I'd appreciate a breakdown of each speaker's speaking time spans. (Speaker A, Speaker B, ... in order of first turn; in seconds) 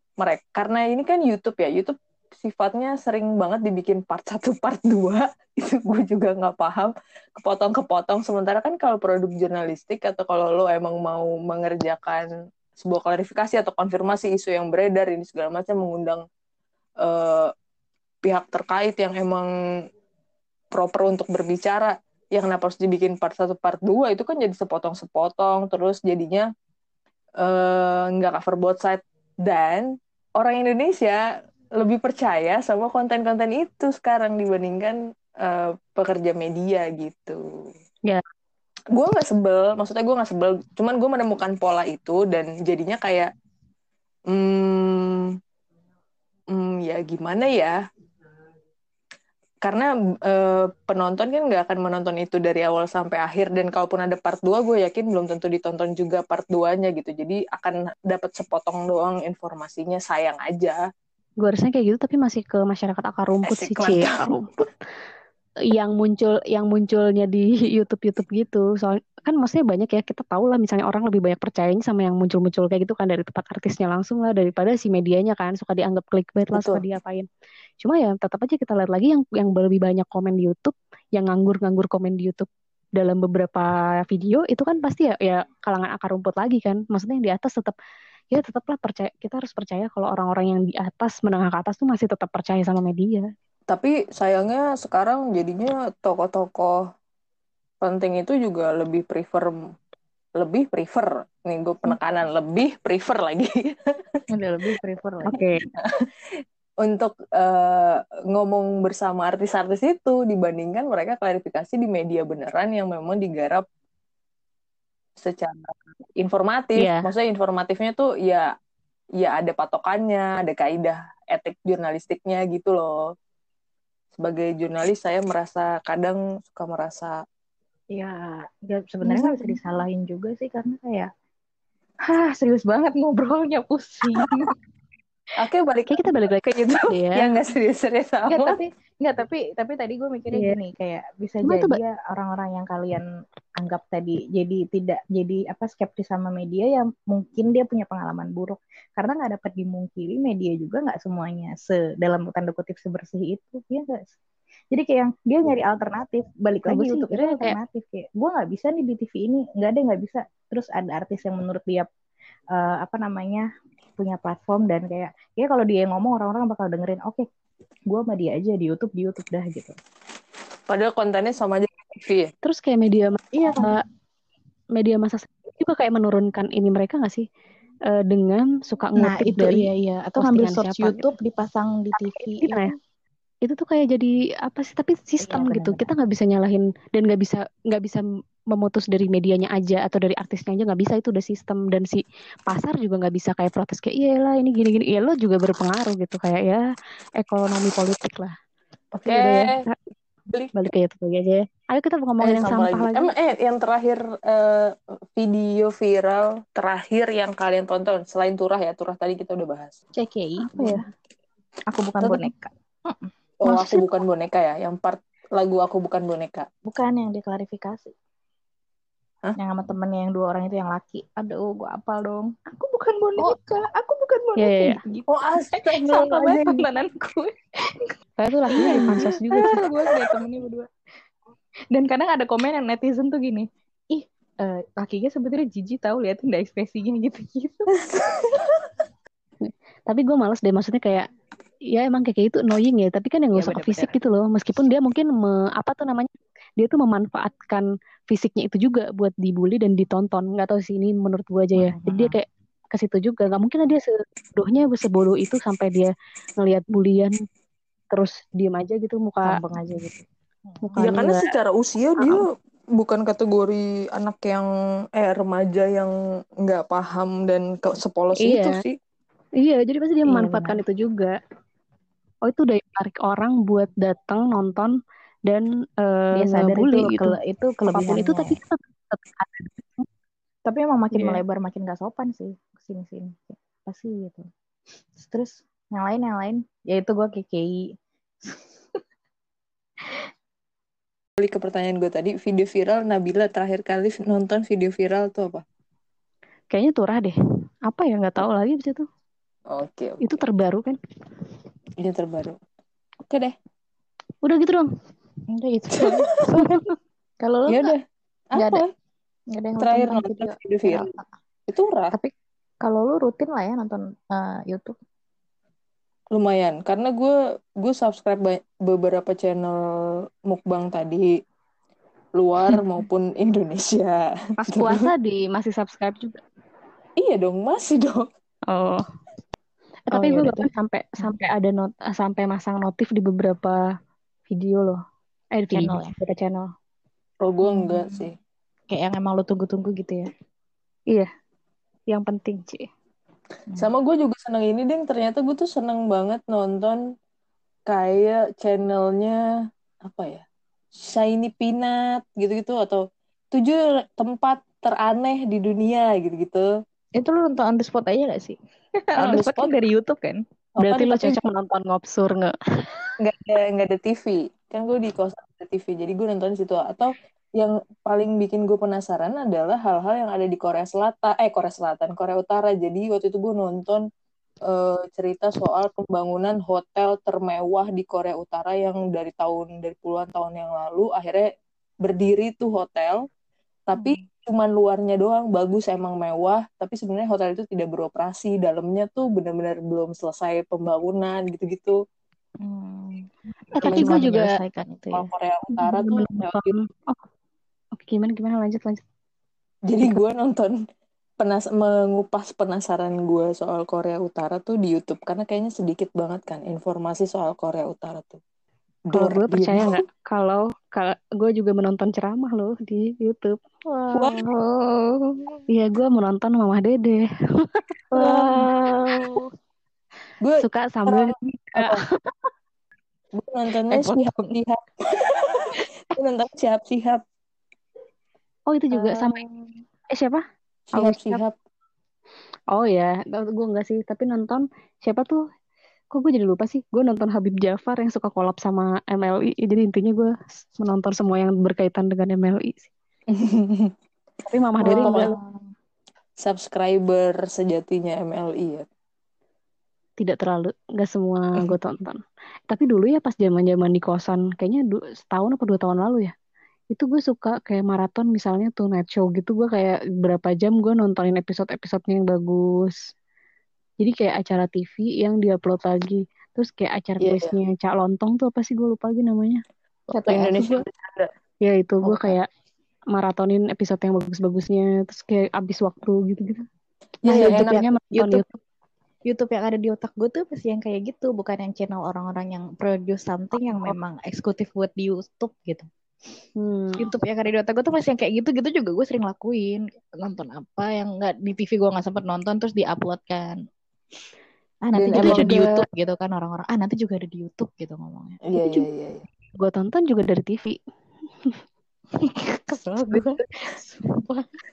Speaker A: 0.2-16.2, 17.0-17.5, 18.2-19.5, 20.7-26.5, 27.4-31.2, 31.8-37.4, 38.9-43.3, 44.3-45.3, 46.5-47.7, 49.6-60.8, 63.4-64.4, 76.5-76.8, 93.7-96.8, 97.8-99.5, 100.4-104.2, 105.8-106.1, 106.8-113.6, 115.2-118.5, 119.2-123.0, 124.2-127.2, 135.4-138.6, 170.7-172.3, 198.9-199.6, 202.2-209.8, 213.4-216.5, 225.1-226.7, 228.5-230.1, 237.9-238.6, 260.8-262.2, 262.8-268.7, 291.2-295.4, 299.5-300.0, 301.8-302.4, 303.1-303.3, 305.8-306.1, 307.5-307.8, 308.3-308.7, 309.6-310.9, 311.5-311.9, 316.1-319.6, 320.3-321.1, 322.2-324.9, 327.0-328.1, 337.2-338.2, 343.6-346.8, 347.7-349.2, 349.8-350.2, 350.8-352.8, 353.3-356.4, 359.0-359.5, 360.6-361.2, 363.0-373.8, 374.5-381.3, 381.8-383.0, 383.7-391.8, 393.6-394.0, 394.9-396.6, 399.7-400.6, 401.2-408.2, 408.9-409.8, 417.9-418.4, 420.2-421.8, 423.1-427.0, 430.7-431.3, 443.1-443.7, 444.6-445.1, 446.2-448.6, 467.0-467.3, 470.1-471.1, 477.1-477.6, 494.7-495.4, 498.2-499.0
Speaker B: 61.4-64.5, 65.7-77.3, 77.8-87.7, 88.3-93.3, 105.3-105.6, 116.8-117.1, 129.1-129.6, 135.9-137.3, 141.4-141.8, 156.6-157.6, 172.4-173.8, 174.7-177.2, 177.9-181.1, 181.9-182.7, 183.4-196.6, 197.2-198.3, 199.0-199.8, 200.5-203.1, 210.4-210.8, 213.5-213.9, 224.4-224.8, 228.2-229.5, 239.4-241.1, 241.7-257.1, 257.9-259.4, 260.6-261.3, 268.2-268.6, 269.4-271.1, 272.2-274.7, 275.3-277.1, 277.7-279.9, 280.9-281.2, 296.5-297.1, 297.6-298.9, 300.0-300.8, 304.2-304.7, 324.4-326.2, 328.5-328.8, 329.9-333.6, 334.3-334.8, 335.3-336.5, 341.9-342.7, 360.6-362.4, 393.6-394.3, 395.6-397.0, 397.7-398.8, 408.9-413.4, 415.5-417.6, 420.4-422.1, 428.5-429.2, 429.9-430.2, 430.8-431.2, 432.5-435.2, 435.9-442.7, 444.2-445.1, 450.0-456.1, 456.7-462.8, 463.8-469.4, 470.1-470.5, 471.4-472.3, 472.9-476.4, 477.1-478.3, 486.4-486.9, 495.0-495.6, 498.4-498.7, 499.3-500.6
Speaker C: 104.3-105.4, 127.9-131.1, 132.0-134.5, 138.3-143.1, 143.6-154.0, 154.7-161.9, 162.5-163.5, 164.0-167.2, 167.9-169.7, 173.3-173.8, 179.0-182.7, 185.2-185.9, 209.9-210.9, 211.7-213.1, 216.6-217.9, 219.4-227.9, 228.5-230.7, 231.7-238.0, 243.3-244.0, 251.6-252.2, 259.2-261.0, 270.1-270.6, 276.1-278.4, 280.4-284.3, 284.9-287.6, 288.2-288.8, 305.3-306.7, 307.2-307.7, 308.4-308.6, 309.3-311.1, 312.6-314.7, 329.9-330.5, 335.5-335.9, 337.4-338.1, 338.7-340.1, 357.0-360.2, 383.7-384.0, 392.4-395.1, 413.7-415.3, 417.9-419.2, 423.7-424.4, 428.7-429.5, 444.6-445.4, 469.9-470.5, 471.8-472.2, 477.1-478.2, 479.1-485.7, 486.8-493.4, 494.6-498.2, 502.0-504.2